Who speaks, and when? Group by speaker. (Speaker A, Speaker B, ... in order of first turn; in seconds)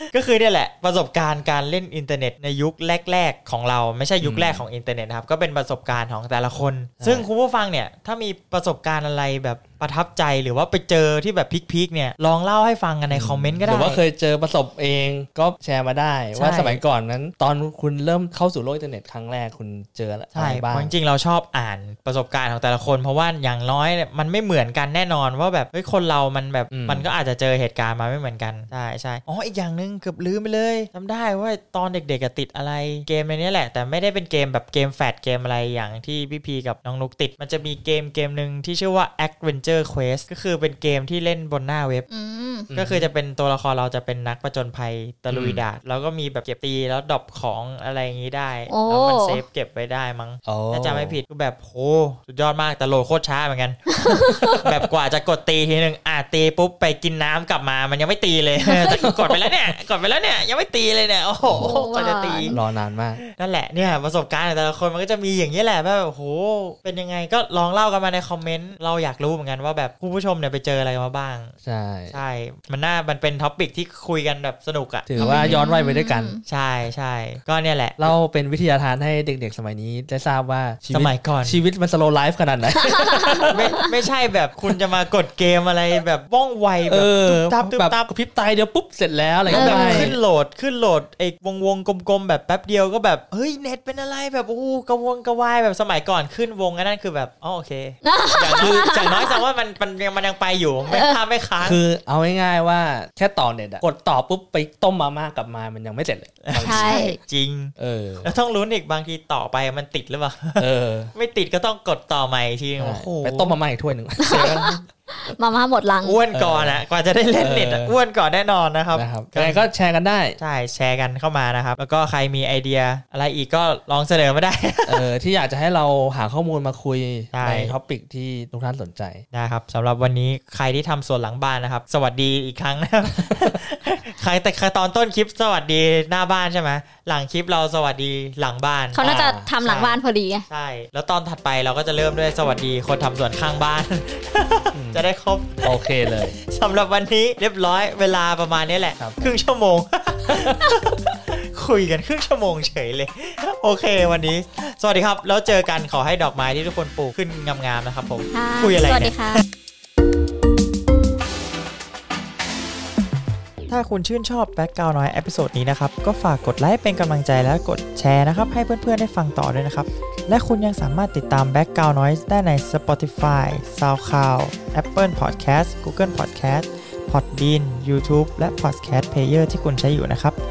Speaker A: 0.1-14.0, 16.4-16.8, 20.3-42.1, 42.7-62.6, 63.2-71.5, 72.1-75.6, 76.5-78.0, 80.9-81.6, 83.5-88.1, 89.5-101.8, 106.4-107.7, 108.2-113.5, 114.2-114.8, 116.0-119.7, 120.4-125.0, 127.3-127.7, 129.3-139.0, 139.6-145.8, 146.4-159.4, 163.7-180.4
Speaker B: 4.2-4.7, 7.0-7.3, 13.1-20.9, 26.7-27.1, 42.7-43.1, 45.3-45.6, 50.5-51.2, 58.8-59.3, 61.5-61.8, 62.5-63.2, 71.6-72.2, 75.1-76.3, 78.0-83.8, 86.9-90.2, 98.6-98.9, 101.6-107.0, 107.8-108.3, 110.6-111.1, 112.8-114.6, 116.3-116.8, 117.4-118.0, 118.9-120.4, 124.9-129.2, 139.0-139.5, 144.7-145.1, 145.6-146.4, 149.0-149.3, 150.3-150.6
Speaker C: 42.1-42.7, 48.7-49.4, 53.9-54.6, 58.7-59.0, 61.5-62.6, 75.2-76.4, 82.8-83.9, 89.5-90.2, 98.0-99.4, 100.9-101.2, 106.6-107.2, 114.2-116.2, 138.9-140.4, 158.3-159.4